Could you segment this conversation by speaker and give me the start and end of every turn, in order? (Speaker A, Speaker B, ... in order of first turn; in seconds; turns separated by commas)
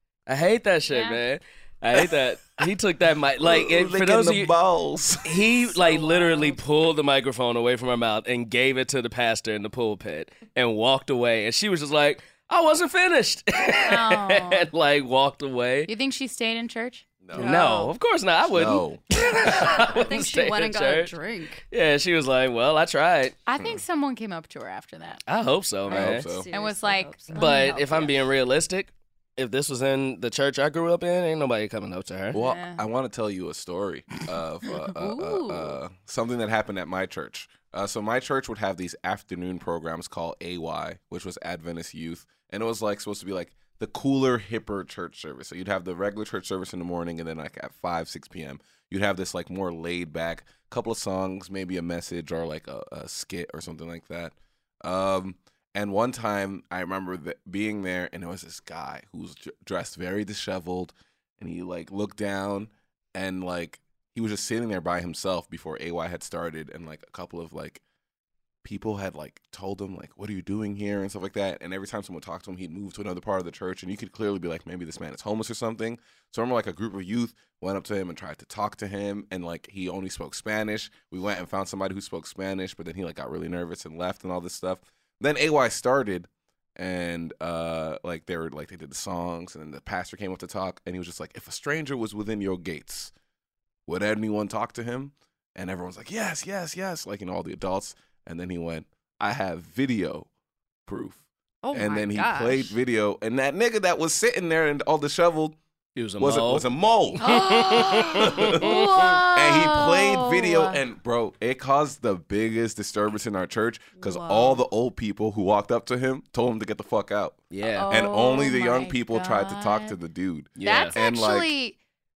Speaker A: 0.3-4.5, Speaker B: 0.9-1.2, Speaker C: 3.4-5.5, Speaker A: 5.2-15.9, Speaker B: 6.0-6.5, Speaker B: 13.8-14.7, Speaker B: 15.9-17.1, Speaker C: 17.2-17.5, Speaker D: 17.4-17.9, Speaker A: 17.4-21.1, Speaker C: 18.5-19.0, Speaker D: 19.8-21.6, Speaker A: 21.7-23.4, Speaker B: 23.5-25.2, Speaker A: 25.3-26.3, Speaker C: 25.9-26.5, Speaker D: 25.9-28.2, Speaker B: 26.5-27.9, Speaker A: 27.3-32.4, Speaker C: 32.3-67.8, Speaker B: 32.3-32.8, Speaker B: 34.7-35.8, Speaker C: 68.6-93.1, Speaker C: 93.9-100.3, Speaker C: 100.9-105.6, Speaker D: 101.6-102.8, Speaker A: 106.0-106.7, Speaker C: 106.2-107.2, Speaker B: 107.2-110.8, Speaker A: 107.2-109.2, Speaker C: 108.2-108.8, Speaker C: 109.3-121.5, Speaker D: 114.0-114.6, Speaker A: 117.5-117.9, Speaker B: 117.7-120.0, Speaker A: 120.6-121.0, Speaker B: 120.6-121.8